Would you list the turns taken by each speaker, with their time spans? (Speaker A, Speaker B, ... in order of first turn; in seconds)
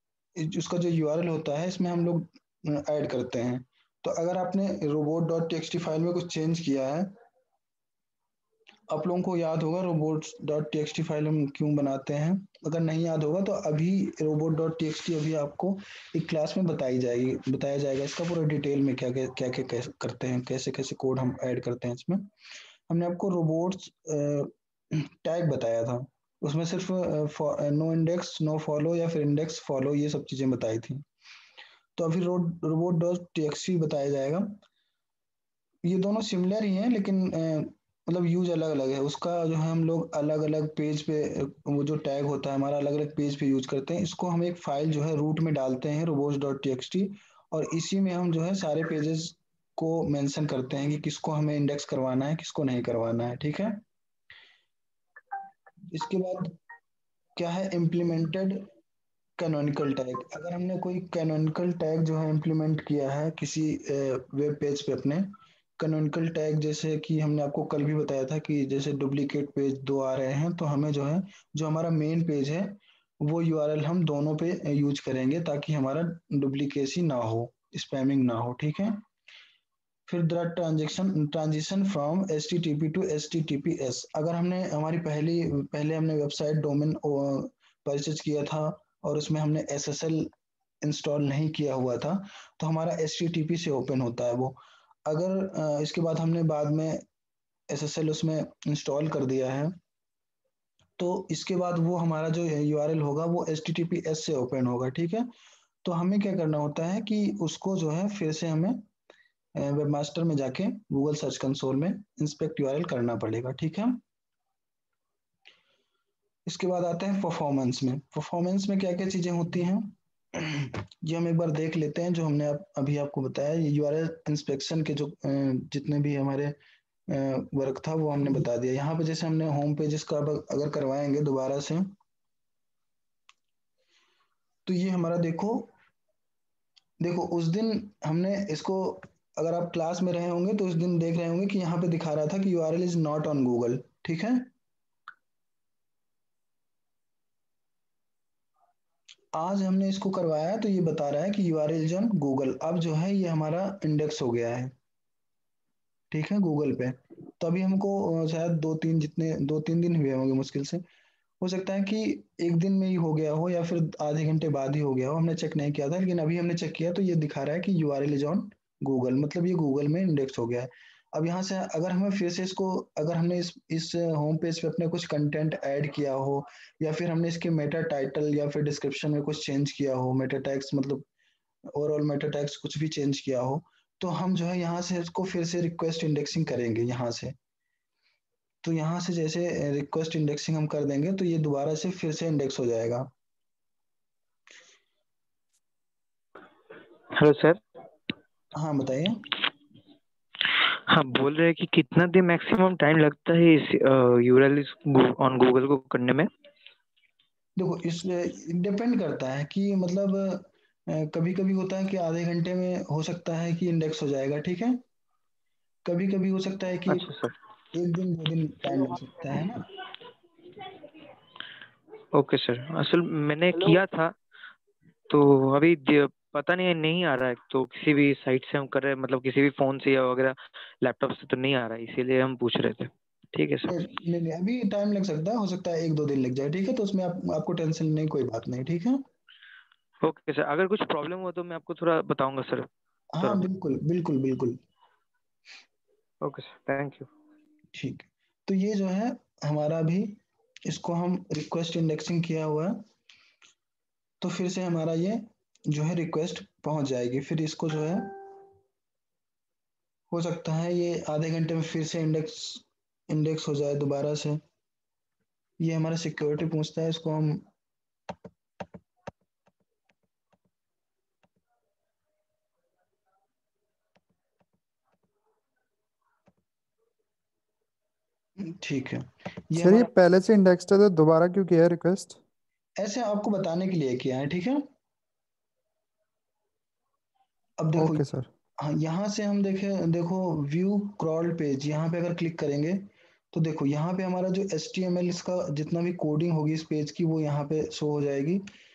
Speaker A: 0.4-7.1, 8.9-22.3, 22.9-31.0, 31.9-34.6, 35.8-53.8, 55.9-56.5, 57.4-58.7, 59.4-65.3, 65.8-79.0, 80.1-90.3, 90.8-97.0, 97.7-99.7, 101.0-105.3, 105.8-108.8, 109.5-114.0, 116.5-126.5, 127.1-131.9, 134.7-135.7, 137.0-144.5, 149.3-154.7, 156.1-160.8, 161.4-181.1, 181.7-187.3, 188.6-193.1, 198.5-199.3, 207.6-214.8, 215.8-217.1, 217.7-219.7, 233.7-239.0, 243.1-244.6, 247.7-252.8, 254.2-258.4, 260.1-264.4, 265.6-267.4, 278.4-279.9, 282.8-284.6, 287.6-288.1, 288.6-298.4
Speaker B: 197.1-197.6, 200.9-206.3, 216.9-217.3, 222.1-224.1, 225.1-233.8, 240.0-242.7, 246.2-247.1
Speaker C: 279.6-282.1, 287.7-288.3